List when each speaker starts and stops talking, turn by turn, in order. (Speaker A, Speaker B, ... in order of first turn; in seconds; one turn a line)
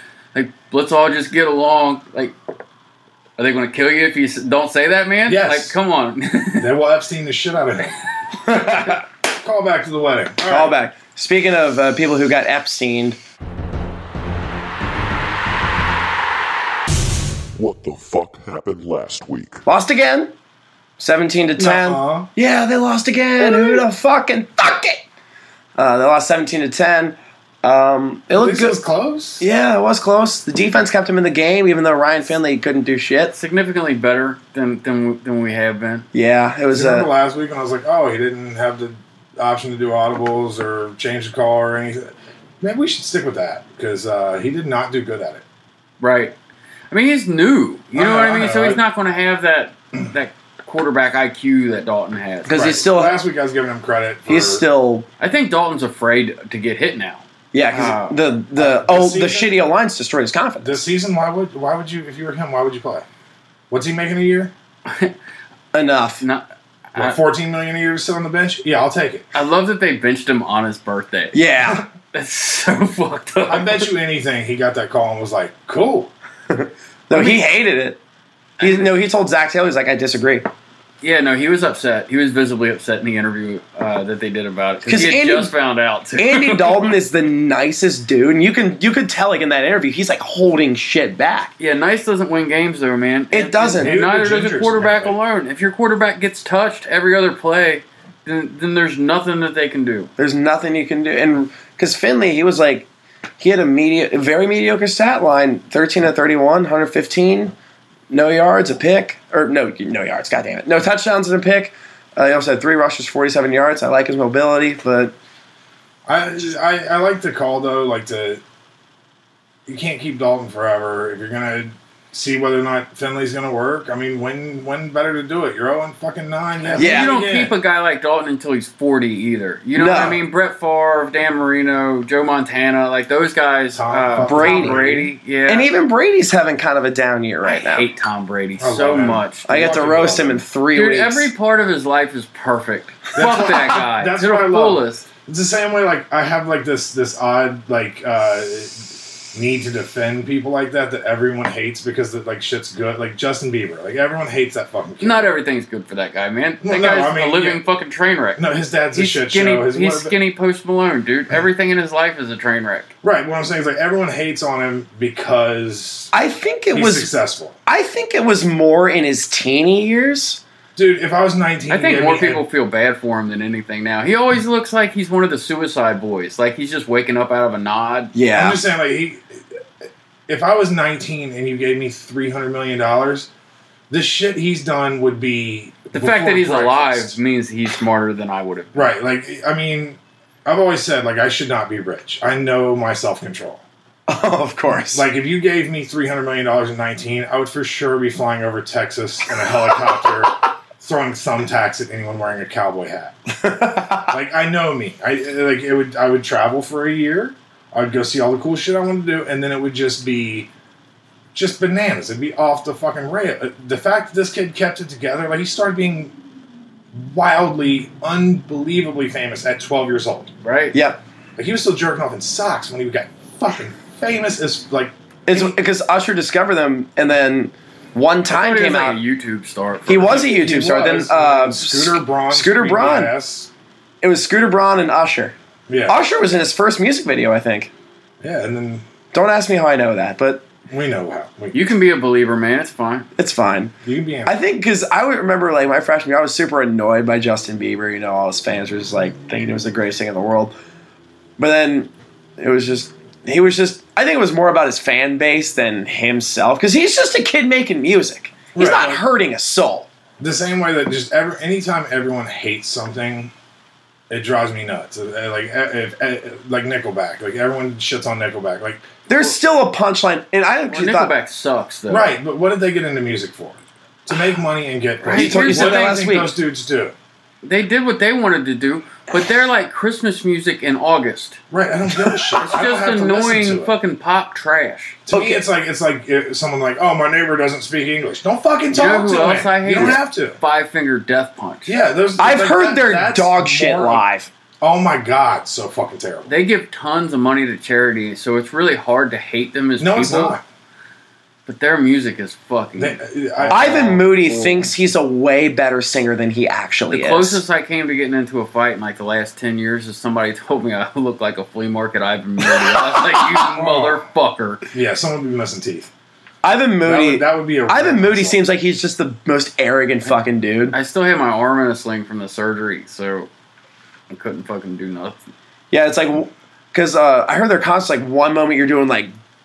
Speaker A: 0.3-2.3
Speaker A: 3.4-6.7
Speaker B: 5.2-5.8
Speaker B: 6.6-10.8
Speaker C: 8.5-9.0
Speaker C: 10.4-13.2
Speaker D: 17.6-19.6
Speaker C: 19.6-20.3
Speaker C: 21.0-25.0
Speaker B: 21.6-22.3
Speaker B: 23.4-23.8
Speaker C: 25.8-28.8
Speaker B: 28.3-29.4
Speaker C: 29.4-33.3
Speaker A: 33.3-36.1
Speaker C: 36.1-37.1
Speaker B: 36.7-45.4
Speaker A: 46.0-46.3
Speaker A: 46.9-52.6
Speaker B: 47.9-48.8
Speaker C: 52.5-53.2
Speaker B: 52.5-54.6
Speaker C: 54.3-55.1
Speaker A: 55.2-58.2
Speaker C: 57.5-60.8
Speaker B: 58.5-59.5
Speaker B: 60.6-63.0
Speaker B: 63.7-64.5
Speaker A: 64.8-65.1
Speaker C: 65.7-66.2
Speaker A: 66.2-67.2
Speaker B: 67.0-69.3
Speaker A: 69.3-71.4
Speaker C: 71.3-71.8
Speaker A: 72.1-73.9
Speaker B: 73.5-76.1
Speaker C: 76.5-78.0
Speaker A: 77.1-77.4
Speaker A: 78.6-78.9
Speaker C: 78.6-80.5
Speaker A: 81.0-86.9
Speaker C: 84.8-85.5
Speaker C: 86.2-91.5
Speaker A: 91.6-100.1
Speaker C: 93.3-94.0
Speaker B: 93.8-95.2
Speaker C: 100.2-102.9
Speaker C: 103.4-107.5
Speaker C: 108.1-115.1
Speaker B: 116.0-118.4
Speaker B: 119.7-127.5
Speaker A: 126.6-135.7
Speaker C: 126.8-127.2
Speaker C: 129.7-130.2
Speaker B: 133.7-135.1
Speaker C: 134.2-137.9
Speaker A: 137.4-139.6
Speaker B: 138.6-140.4
Speaker C: 139.5-141.3
Speaker A: 140.7-145.1
Speaker B: 143.2-155.3
Speaker A: 155.0-158.4
Speaker B: 156.6-157.6
Speaker B: 158.4-160.1
Speaker A: 158.9-162.9
Speaker B: 163.0-166.1
Speaker C: 166.1-167.1
Speaker B: 166.7-167.6
Speaker C: 167.7-170.4
Speaker B: 170.8-172.4
Speaker A: 171.7-178.1
Speaker C: 178.1-178.6
Speaker B: 178.3-179.4
Speaker B: 180.3-183.3
Speaker B: 183.9-187.2
Speaker A: 185.9-188.9
Speaker B: 188.7-193.6
Speaker C: 194.1-195.0
Speaker B: 194.9-203.2
Speaker C: 203.3-204.2
Speaker B: 204.1-210.5
Speaker B: 211.3-216.1
Speaker B: 216.9-220.3
Speaker A: 220.4-220.8
Speaker C: 220.7-221.0
Speaker B: 221.4-225.6
Speaker C: 225.3-229.0
Speaker A: 228.3-230.3
Speaker C: 229.9-233.1
Speaker B: 230.0-233.5
Speaker C: 234.0-235.3
Speaker B: 235.7-236.0
Speaker C: 235.9-237.7
Speaker B: 238.2-238.8
Speaker C: 239.1-240.5
Speaker B: 240.7-241.7
Speaker A: 241.5-243.1
Speaker C: 243.2-250.5
Speaker B: 243.8-244.3
Speaker C: 251.4-259.9
Speaker B: 258.5-259.0
Speaker B: 260.2-263.3
Speaker B: 264.1-268.9
Speaker C: 269.1-271.1
Speaker A: 270.7-272.1
Speaker B: 271.9-276.9
Speaker A: 275.0-275.9
Speaker C: 275.1-276.4
Speaker A: 277.4-281.4
Speaker B: 281.5-283.7
Speaker A: 282.4-285.0
Speaker B: 285.1-290.4
Speaker C: 285.1-285.4
Speaker A: 288.7-291.7
Speaker B: 291.6-294.0
Speaker C: 292.2-294.3
Speaker B: 294.6-296.3
Speaker A: 296.3-300.4
Speaker B: 299.8-300.4
Speaker A: 301.5-304.7
Speaker B: 302.8-304.0
Speaker C: 303.5-307.4
Speaker A: 306.9-314.6
Speaker B: 313.5-314.0
Speaker B: 314.7-315.9
Speaker C: 316.4-320.8
Speaker B: 316.8-318.4
Speaker A: 320.7-323.3
Speaker A: 324.1-325.2
Speaker C: 325.7-329.1